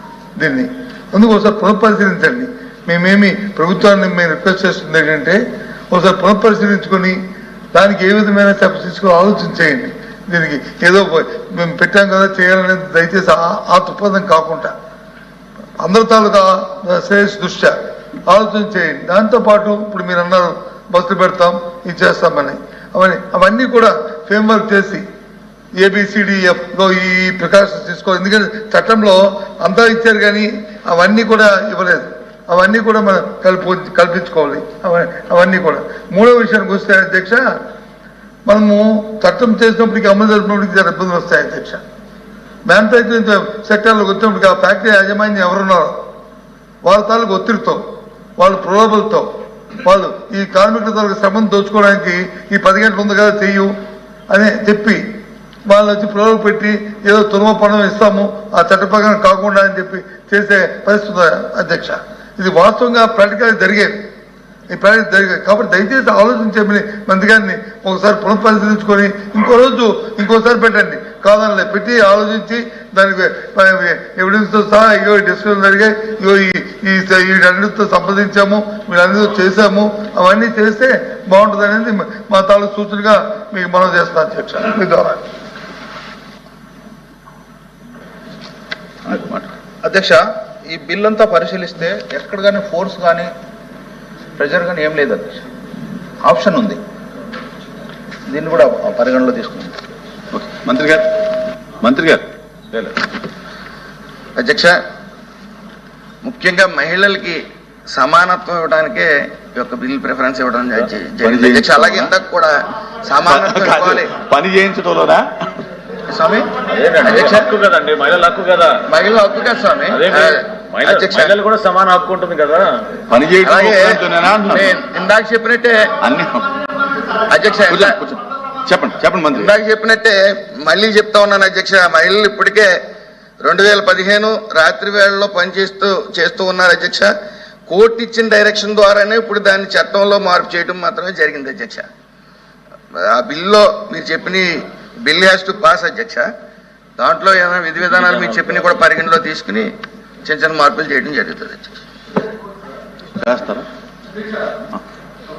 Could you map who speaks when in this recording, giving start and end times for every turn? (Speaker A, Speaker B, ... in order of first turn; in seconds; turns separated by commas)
Speaker A: 0.4-5.4, Speaker A: 5.9-7.2, Speaker A: 7.7-14.7, Speaker A: 15.8-25.0, Speaker A: 25.8-37.5, Speaker A: 38.5-41.8, Speaker A: 42.6-46.0, Speaker A: 46.8-47.8, Speaker A: 48.4-49.3, Speaker A: 49.8-53.7, Speaker A: 54.3-55.0, Speaker A: 55.7-63.9, Speaker A: 64.7-85.2, Speaker B: 89.0-93.3, Speaker B: 94.4-95.5, Speaker B: 96.2-96.8, Speaker B: 98.3-99.8, Speaker C: 100.3-101.1, Speaker C: 101.8-102.2, Speaker D: 104.4-104.8, Speaker D: 106.2-107.4, Speaker D: 107.9-114.1, Speaker C: 111.2-112.1, Speaker C: 113.2-115.3, Speaker D: 116.1-117.5, Speaker E: 116.6-118.8, Speaker D: 118.9-121.3, Speaker E: 119.9-122.9, Speaker C: 123.1-124.8, Speaker D: 123.4-125.9, Speaker C: 126.0-126.5, Speaker D: 127.3-128.0, Speaker C: 127.7-129.5, Speaker D: 129.3-132.7, Speaker D: 133.4-137.1, Speaker D: 137.7-141.9, Speaker D: 142.9-146.3, Speaker D: 147.0-149.7, Speaker D: 150.2-151.8, Speaker C: 153.2-153.7